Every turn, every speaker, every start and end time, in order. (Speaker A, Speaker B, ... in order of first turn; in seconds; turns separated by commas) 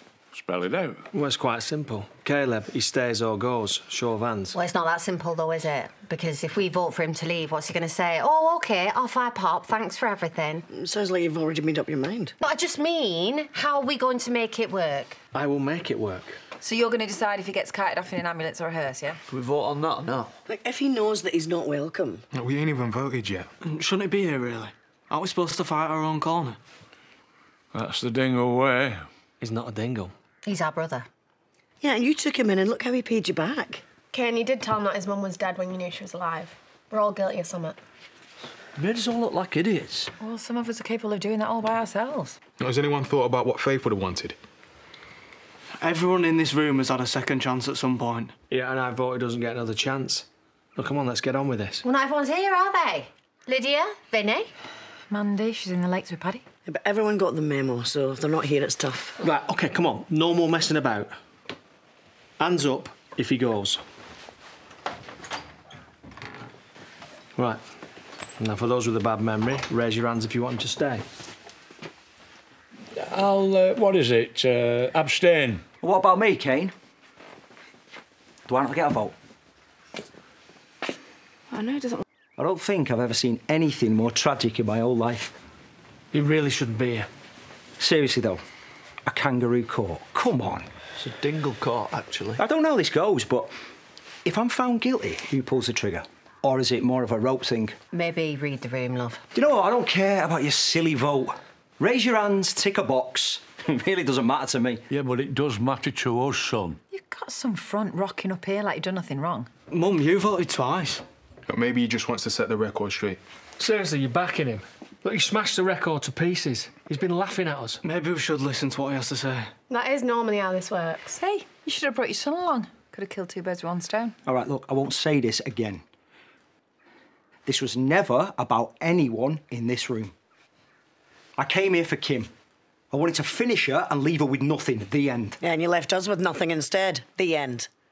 Speaker A: 0.3-1.0, Speaker B: 1.1-4.5, Speaker C: 4.5-10.7, Speaker D: 10.7-12.3, Speaker C: 12.4-15.2, Speaker B: 15.3-16.4, Speaker E: 16.6-19.2, Speaker F: 19.3-20.3, Speaker D: 20.5-22.2, Speaker G: 22.3-23.5, Speaker H: 23.7-26.6, Speaker A: 27.7-29.1, Speaker B: 29.4-30.1, Speaker C: 30.4-31.1, Speaker D: 31.8-33.8, Speaker I: 34.1-37.8, Speaker F: 38.8-40.1, Speaker E: 40.2-42.4, Speaker G: 42.6-44.4, Speaker H: 45.8-48.3, Speaker B: 48.5-51.8, Speaker C: 51.8-54.5, Speaker E: 55.1-56.4, Speaker D: 56.6-59.2, Speaker B: 59.2-61.1, Speaker B: 62.4-63.8, Speaker B: 67.3-67.6, Speaker B: 68.4-71.0, Speaker A: 73.0-75.6, Speaker J: 75.8-76.7, Speaker J: 78.5-79.1, Speaker J: 82.4-85.3, Speaker B: 86.1-87.1, Speaker J: 87.8-88.4, Speaker J: 89.1-90.7, Speaker F: 91.0-92.4, Speaker J: 92.4-93.5, Speaker J: 94.2-97.8, Speaker C: 97.9-99.2, Speaker J: 99.3-104.8, Speaker A: 104.9-106.8, Speaker E: 106.9-109.5, Speaker H: 109.7-111.0, Speaker G: 111.5-113.2, Speaker B: 113.6-117.8, Speaker H: 117.8-119.5, Speaker I: 119.7-121.1, Speaker E: 121.1-124.1, Speaker J: 124.2-125.8, Speaker J: 127.5-130.1, Speaker J: 131.4-132.3, Speaker J: 132.9-135.4, Speaker D: 135.4-137.7